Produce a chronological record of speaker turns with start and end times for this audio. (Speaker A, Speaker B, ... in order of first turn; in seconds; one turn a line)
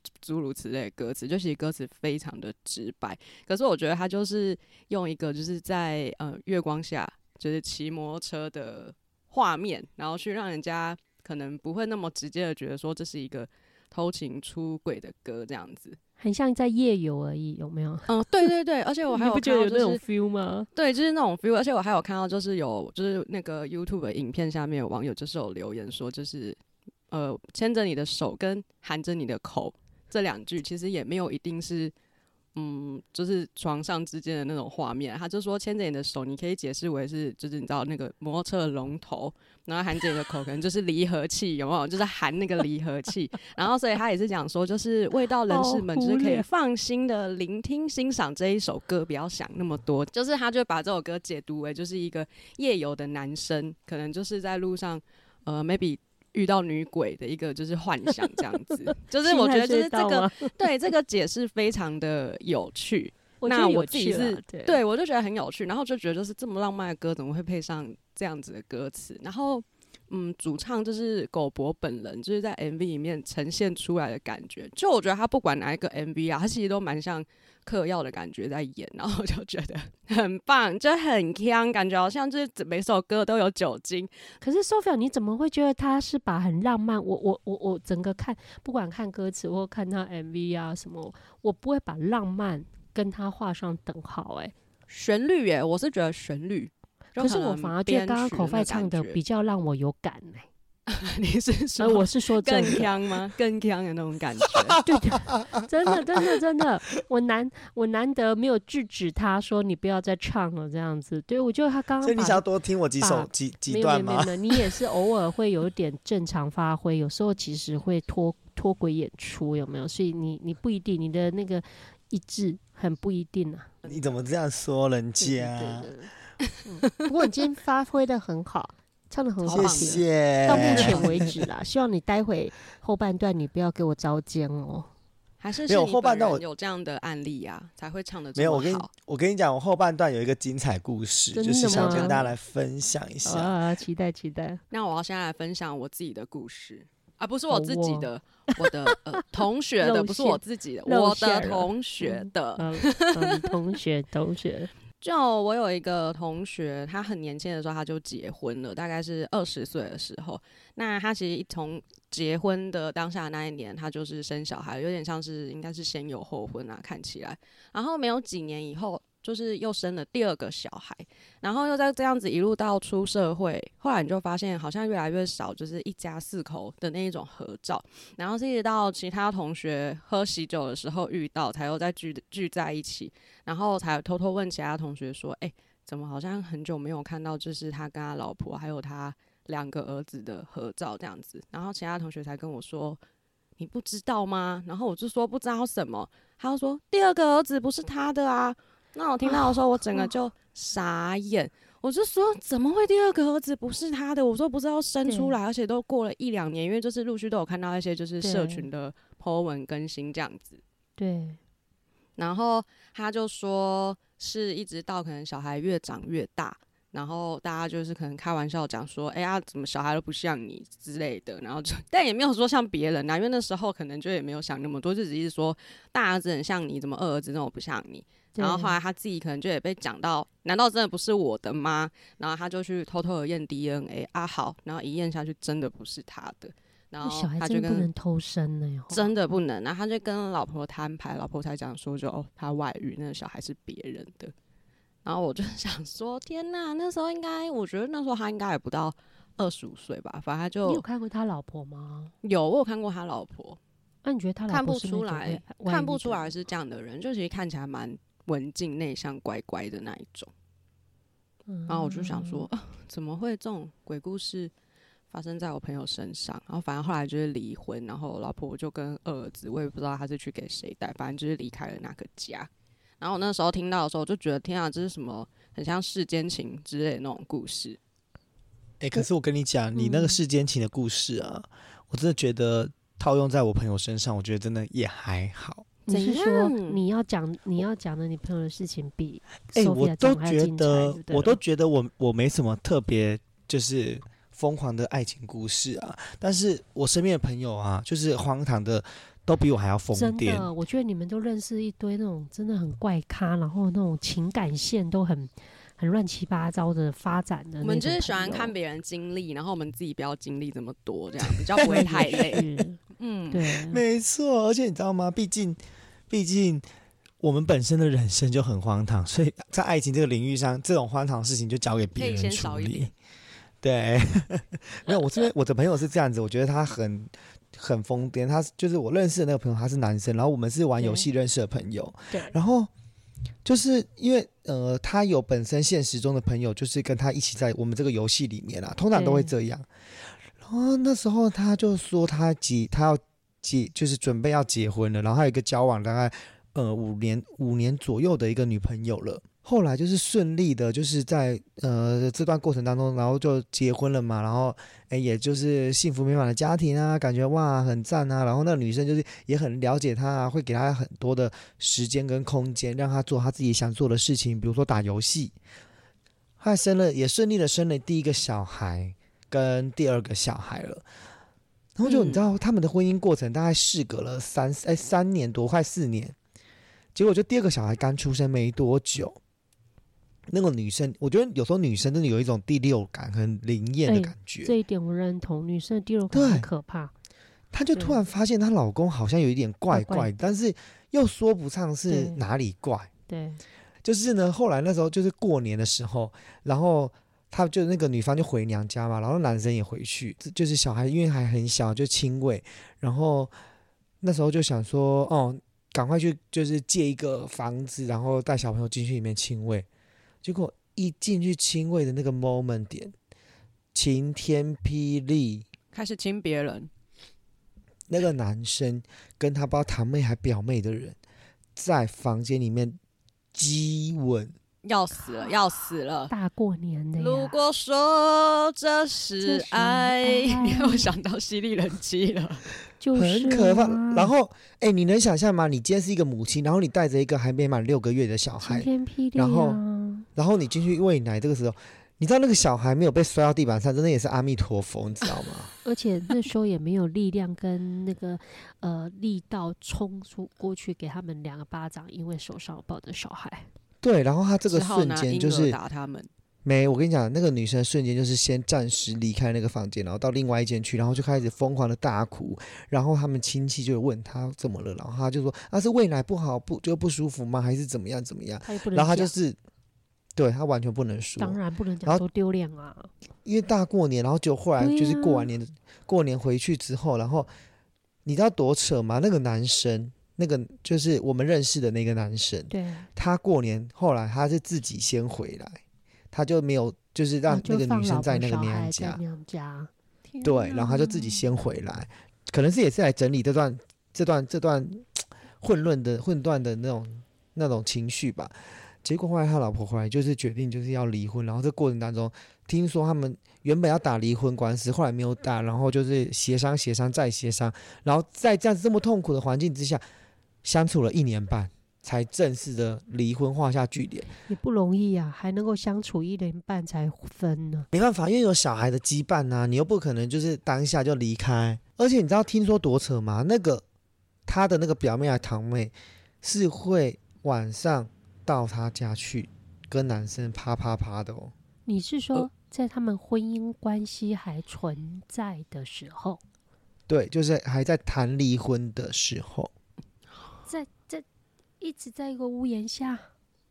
Speaker A: 0.2-16.0
Speaker B: 16.2-18.5
Speaker A: 18.1-20.0
Speaker B: 19.1-20.7
Speaker A: 20.7-26.6
Speaker A: 27.1-31.9
Speaker A: 32.5-84.1
Speaker B: 45.5-46.5
Speaker B: 59.2-60.5
Speaker B: 63.4-64.8
Speaker B: 84.4-94.5
Speaker A: 94.9-99.2
Speaker B: 97.1-100.5
Speaker A: 100.9-104.8
Speaker B: 101.8-102.9
Speaker C: 104.7-106.3
Speaker B: 104.8-112.4
Speaker C: 112.0-114.7
Speaker B: 113.0-123.8
Speaker C: 123.8-125.9
Speaker B: 125.2-126.1
Speaker B: 126.6-134.9
Speaker A: 129.4-131.2
Speaker C: 129.5-131.4
Speaker A: 135.4-138.9
Speaker C: 135.7-136.4
Speaker C: 138.3-143.5
Speaker B: 141.3-142.1
Speaker A: 141.7-142.3
Speaker B: 143.2-144.6
Speaker A: 144.7-153.5
Speaker B: 147.5-148.1
Speaker B: 148.6-148.9
Speaker B: 149.8-154.7
Speaker A: 155.0-193.0
Speaker A: 193.6-210.6
Speaker B: 199.2-200.1
Speaker B: 205.1-205.4
Speaker B: 208.2-208.7
Speaker B: 211.0-211.4
Speaker A: 212.2-237.9
Speaker B: 228.3-228.8
Speaker B: 237.0-239.1
Speaker A: 238.9-244.3
Speaker A: 245.0-250.8
Speaker B: 250.6-252.1
Speaker A: 252.2-253.6
Speaker B: 254.0-256.3
Speaker A: 254.5-260.3
Speaker B: 261.5-262.5
Speaker A: 261.7-264.5
Speaker A: 265.1-272.5
Speaker A: 273.0-277.8
Speaker C: 278.8-285.7
Speaker B: 279.7-280.2
Speaker A: 285.9-286.8
Speaker B: 285.9-291.4
Speaker C: 289.5-300.5
Speaker B: 299.9-308.5
Speaker A: 307.6-312.4
Speaker C: 311.3-312.6
Speaker B: 311.6-312.8
Speaker A: 313.0-313.4
Speaker B: 313.3-313.8
Speaker C: 313.7-315.6
Speaker C: 316.1-316.6
Speaker C: 317.2-322.9
Speaker A: 321.9-322.9
Speaker C: 323.6-332.7
Speaker B: 330.8-331.1
Speaker B: 332.1-332.4
Speaker C: 333.4-339.7
Speaker B: 338.9-339.3
Speaker C: 340.4-365.3
Speaker C: 366.4-370.8
Speaker C: 371.8-376.1
Speaker A: 371.8-372.2
Speaker C: 376.9-379.2
Speaker C: 380.3-384.5
Speaker B: 383.9-386.9
Speaker C: 386.1-386.5
Speaker C: 387.5-392.9
Speaker B: 389.7-390.1
Speaker B: 391.9-392.2
Speaker B: 393.1-393.4
Speaker C: 393.8-403.3
Speaker C: 404.0-409.7
Speaker C: 410.2-412.9
Speaker C: 413.7-415.4
Speaker A: 415.7-416.7
Speaker C: 417.9-420.9
Speaker C: 421.6-422.8
Speaker C: 423.3-424.3
Speaker A: 424.6-426.1
Speaker B: 426.1-427.4
Speaker A: 427.0-432.4
Speaker B: 429.2-430.9
Speaker B: 432.8-434.1
Speaker C: 432.9-439.6
Speaker B: 438.4-440.1
Speaker C: 440.1-445.5
Speaker B: 445.6-453.5
Speaker C: 453.8-455.6
Speaker A: 454.5-456.1
Speaker C: 456.4-469.4
Speaker B: 468.4-469.1
Speaker C: 470.1-472.0
Speaker B: 471.2-472.9
Speaker C: 473.2-477.3
Speaker B: 474.6-475.3
Speaker C: 478.0-485.6
Speaker B: 482.5-482.9
Speaker C: 486.1-489.0
Speaker B: 487.3-491.3
Speaker C: 490.2-498.3
Speaker C: 498.8-509.8
Speaker C: 510.4-514.1
Speaker B: 514.2-517.7
Speaker C: 517.7-523.6
Speaker C: 524.3-531.3
Speaker B: 531.6-536.2
Speaker C: 536.9-539.5
Speaker B: 540.5-541.0
Speaker B: 541.6-543.1